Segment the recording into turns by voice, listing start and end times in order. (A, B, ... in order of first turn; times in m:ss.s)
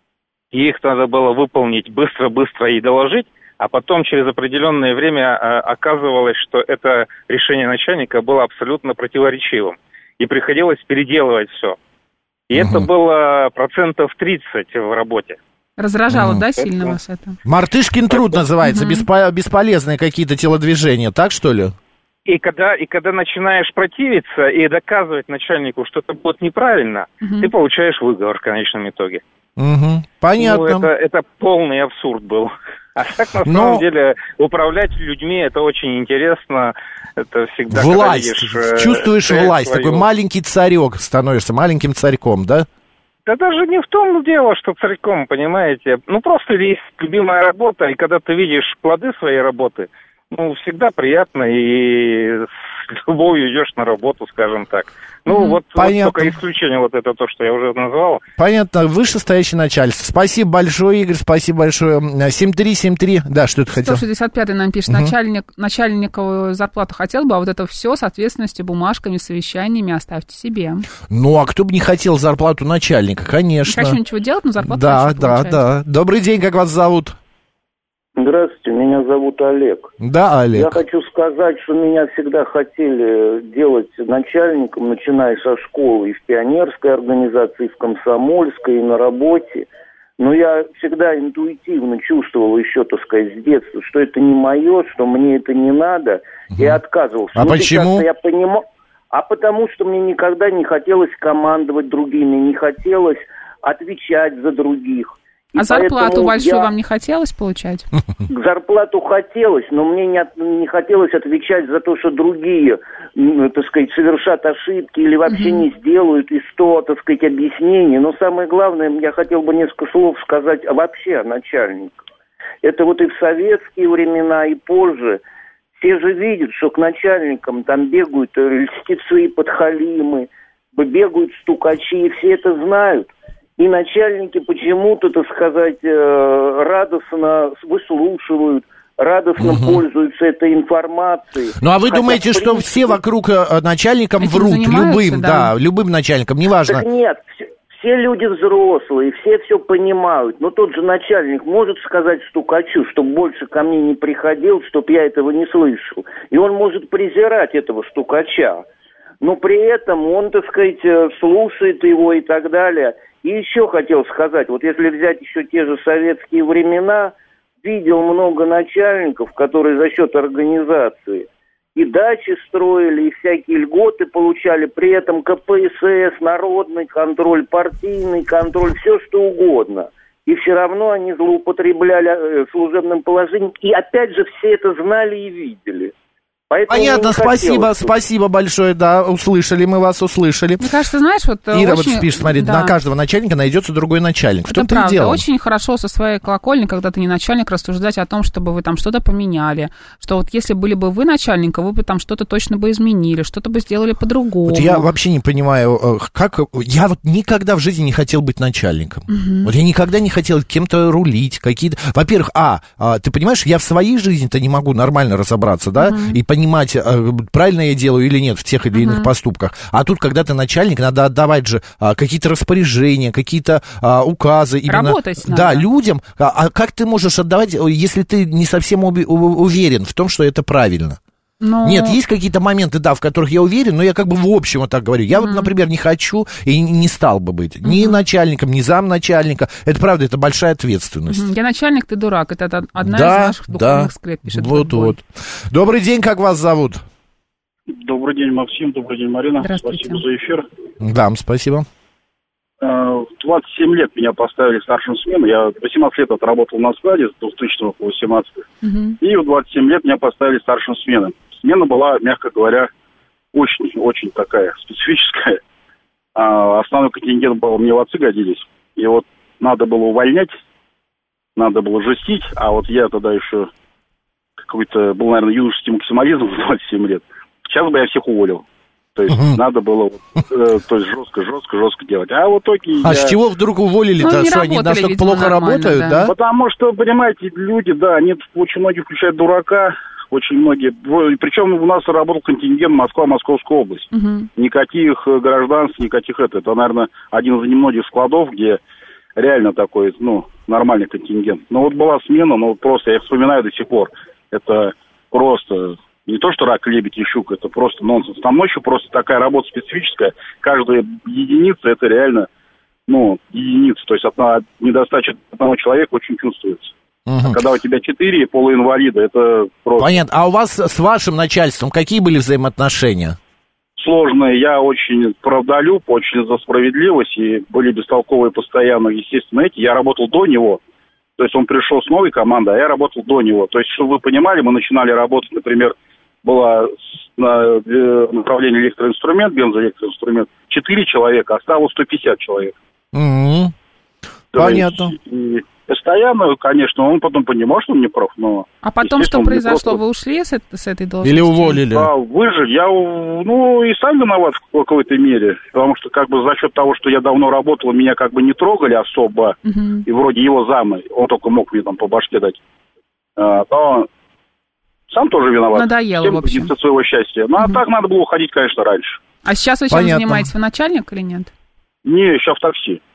0:00.5-0:11.8 A
0:12.5-0:15.4 A
0:12.6-0:12.9 B
0:15.8-0:17.4 C
0:16.1-0:16.4 B
0:17.4-0:21.8 B
0:18.6-0:19.1 C
0:22.3-0:29.2 A
0:27.2-0:27.5 C
0:29.6-0:30.9 B
0:30.4-0:40.0 A
0:33.4-0:33.8 B
0:37.7-0:42.7 B
0:43.3-0:58.2 A
0:55.3-0:56.4 B
0:58.4-1:04.0 B
1:03.8-1:10.9 C
1:11.1-1:14.0 B
1:13.7-1:15.6 C
1:14.6-1:17.2 B
1:18.2-1:19.9 D
1:20.0-1:20.8 B
1:20.5-1:29.7 D
1:30.2-1:46.7 D
1:37.4-1:38.0 B
1:45.6-1:47.9 C
1:48.3-2:02.0 D
1:55.3-1:55.6 C
2:02.6-2:05.2 D
2:05.8-2:23.0 D
2:19.4-2:19.8 B
2:21.6-2:26.8 B
2:24.2-2:25.5 C
2:26.7-2:38.6 D
2:39.2-3:05.9 D
3:06.5-3:07.9 D
3:06.7-3:10.7 B
3:10.6-3:12.8 C
3:11.5-3:15.2 B
3:14.5-3:24.8 C
3:24.5-3:51.0 B
3:29.1-3:29.5 C
3:35.8-3:36.2 C
3:38.7-3:39.1 C
3:44.7-3:45.6 C
3:51.4-3:52.0 C
3:51.6-4:01.3 B
3:55.1-3:55.5 C
3:57.6-3:58.0 C
4:01.1-4:05.0 C
4:02.8-4:06.8 B
4:07.7-4:10.4 E
4:09.4-4:10.0 C
4:10.8-4:11.7 B
4:12.6-4:18.4 E
4:18.6-4:19.0 C
4:19.0-4:22.7 E
4:23.3-4:25.4 E
4:26.2-4:30.3 E
4:31.4-4:33.5 E
4:34.5-4:38.4 E
4:39.0-4:43.2 E
4:39.1-4:39.4 B
4:42.8-4:46.1 B
4:44.0-4:46.1 C
4:46.0-4:58.6 E
4:53.9-4:54.3 C
4:59.2-5:12.3 E
5:12.9-5:20.0 E
5:17.1-5:17.4 B
5:19.8-5:23.2 B
5:23.8-5:30.6 E
5:31.2-5:42.6 E
5:42.9-5:43.5 B
5:44.3-5:49.8 E
5:44.3-5:44.9 B
5:48.6-5:51.6 C
5:51.0-5:51.9 B
5:51.6-6:02.4 E
5:59.5-5:59.9 C
6:03.2-6:03.9 E
6:04.9-6:09.0 E
6:05.5-6:06.5 C
6:09.2-6:11.3 C
6:09.7-6:10.3 B
6:11.8-6:12.8 E